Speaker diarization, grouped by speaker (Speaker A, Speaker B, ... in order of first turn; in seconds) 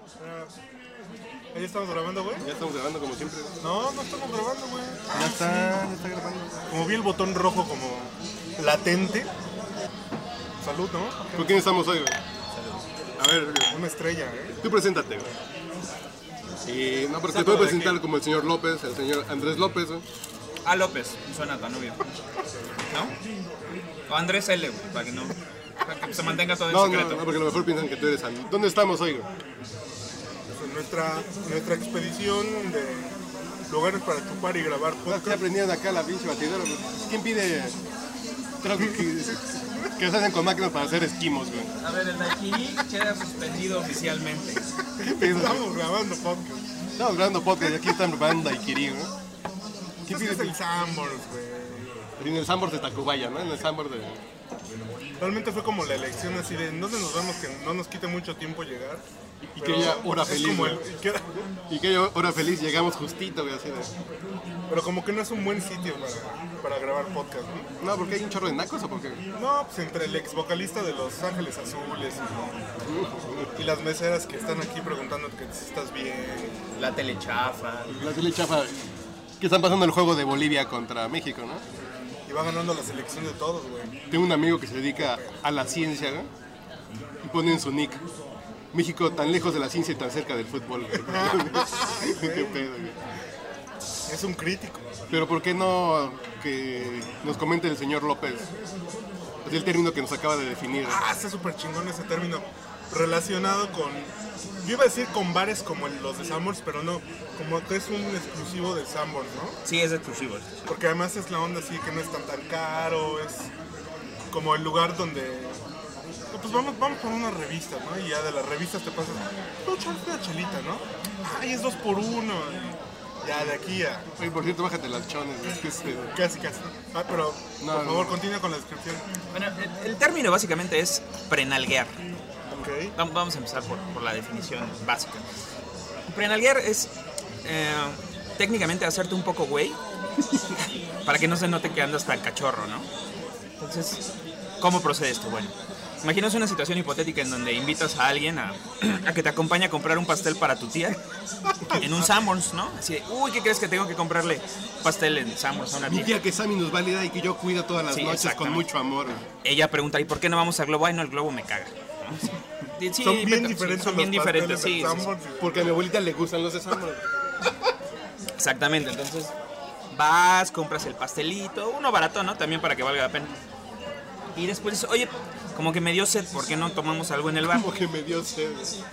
Speaker A: 0.2-0.5, 1.5-2.5, 3.6-5.3, 6.7-9.3, 10.6-11.6, 13.2-14.6, 17.3-18.0, 30.6-33.1, 33.7-35.4, 45.0-46.6, 50.1-52.1, 55.2-59.0, 59.6-61.5, 64.7-67.7, 69.3-72.5, 73.5-76.6, 82.3-83.9, 91.0-92.7, 94.1-94.9, 100.9-109.6, 110.7-113.5, 114.3-115.6, 116.3-124.1, 126.1-129.0, 132.5-132.9, 151.6-152.2, 163.0-165.8
Speaker B: 2.4-3.6, 5.1-6.5, 11.4-12.2, 14.6-15.3, 16.6-20.1, 26.6-29.3, 35.1-37.8, 38.6-41.7, 45.0-45.7, 47.0-49.1, 50.0-50.6, 52.2-54.2, 59.5-60.8, 61.7-63.9, 67.8-69.2, 72.8-73.5, 78.0-78.8, 79.4-81.6, 84.1-86.3, 87.2-88.0, 88.7-93.0, 95.1-98.5, 99.5-101.0, 124.2-126.2, 127.6-128.2, 155.9-159.3, 165.4-167.1, 177.5-178.8
Speaker C: 12.5-12.8, 20.6-22.0, 22.9-23.2, 24.1-27.3, 41.8-44.6, 76.8-78.0, 109.7-110.7, 129.3-132.0, 133.0-135.2, 136.1-136.9, 137.4-139.8, 141.1-142.9, 143.6-144.0, 144.6-151.0, 151.8-156.2, 157.9-158.7, 159.4-165.1, 168.4-169.3, 169.9-173.4, 174.3-177.7